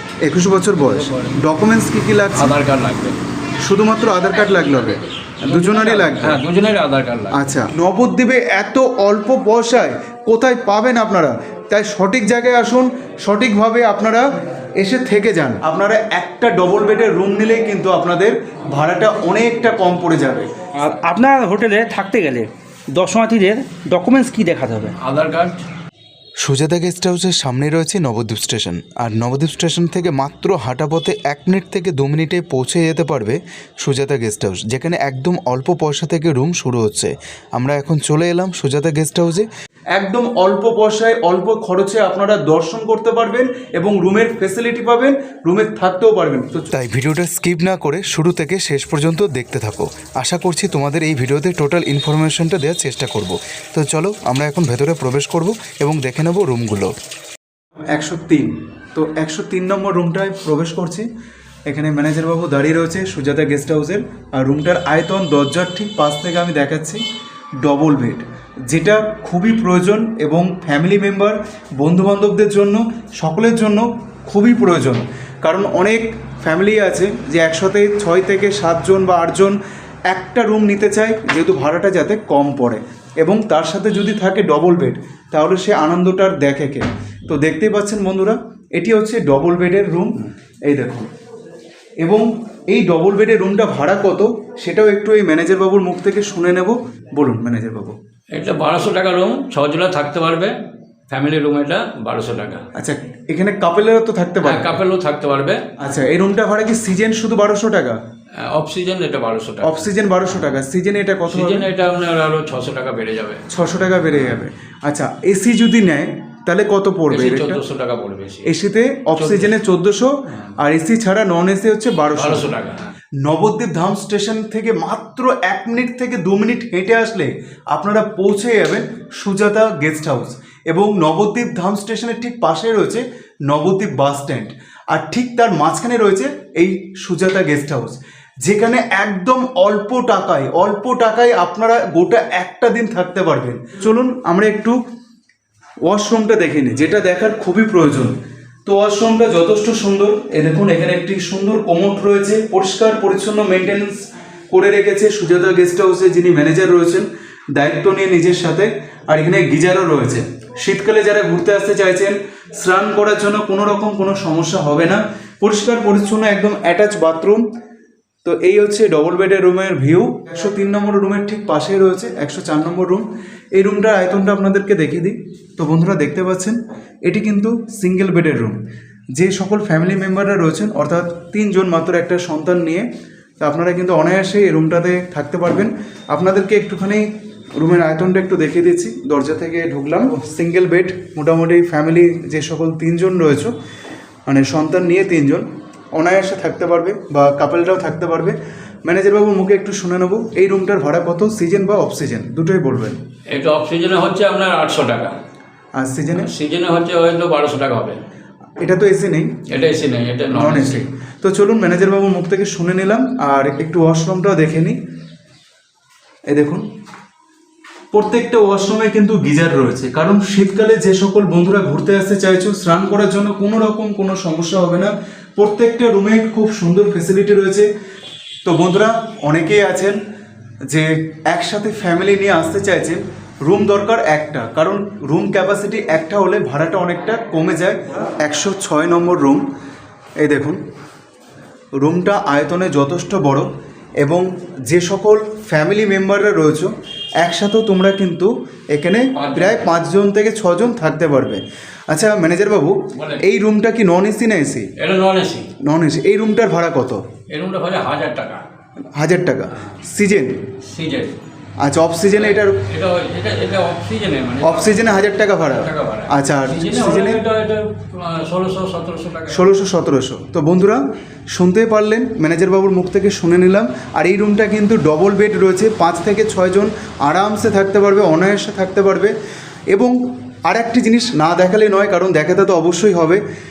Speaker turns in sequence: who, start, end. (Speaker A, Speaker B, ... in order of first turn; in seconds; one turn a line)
Speaker A: 0.2-2.5
Speaker B: 0.7-1.4
Speaker B: 2.4-3.2
Speaker A: 3.6-6.4
Speaker B: 5.5-7.5
Speaker A: 7.3-14.2
Speaker A: 14.8-20.5
Speaker C: 20.8-25.0
Speaker B: 25.0-25.6
Speaker A: 26.4-56.9
Speaker A: 57.9-61.0
Speaker A: 61.7-67.0
Speaker A: 67.6-79.6
Speaker A: 80.1-91.1
Speaker A: 92.0-98.0
Speaker B: 98.3-100.5
Speaker B: 101.1-102.6
Speaker A: 102.8-104.7
Speaker B: 104.4-105.7
Speaker A: 105.8-108.0
Speaker B: 108.4-109.9
Speaker A: 109.6-111.7
Speaker B: 111.3-113.5
Speaker A: 113.5-117.6
Speaker B: 117.1-118.5
Speaker A: 118.5-122.5
Speaker B: 119.2-119.6
Speaker B: 122.2-122.9
Speaker A: 123.2-144.8
Speaker A: 145.8-167.5
Speaker A: 168.2-178.6
Speaker A: 179.2-182.9
Speaker A: 183.4-187.1
Speaker A: 187.6-193.5
Speaker A: 194.3-203.0
Speaker B: 203.3-205.1
Speaker A: 205.8-206.3
Speaker B: 206.2-208.0
Speaker A: 208.6-209.3
Speaker B: 209.5-210.8
Speaker A: 210.3-214.8
Speaker A: 216.3-216.7
Speaker A: 217.9-227.7
Speaker A: 228.4-230.0
Speaker A: 230.7-239.4
Speaker A: 240.2-240.6
Speaker A: 241.8-243.5
Speaker A: 244.0-254.7
Speaker B: 249.1-249.7
Speaker B: 252.9-253.2
Speaker B: 254.8-255.5
Speaker A: 255.6-257.0
Speaker B: 257.3-258.4
Speaker A: 258.9-260.4
Speaker B: 260.6-261.2
Speaker A: 261.6-262.6
Speaker B: 262.1-269.5
Speaker A: 264.4-267.2
Speaker A: 269.3-279.1
Speaker A: 279.7-283.2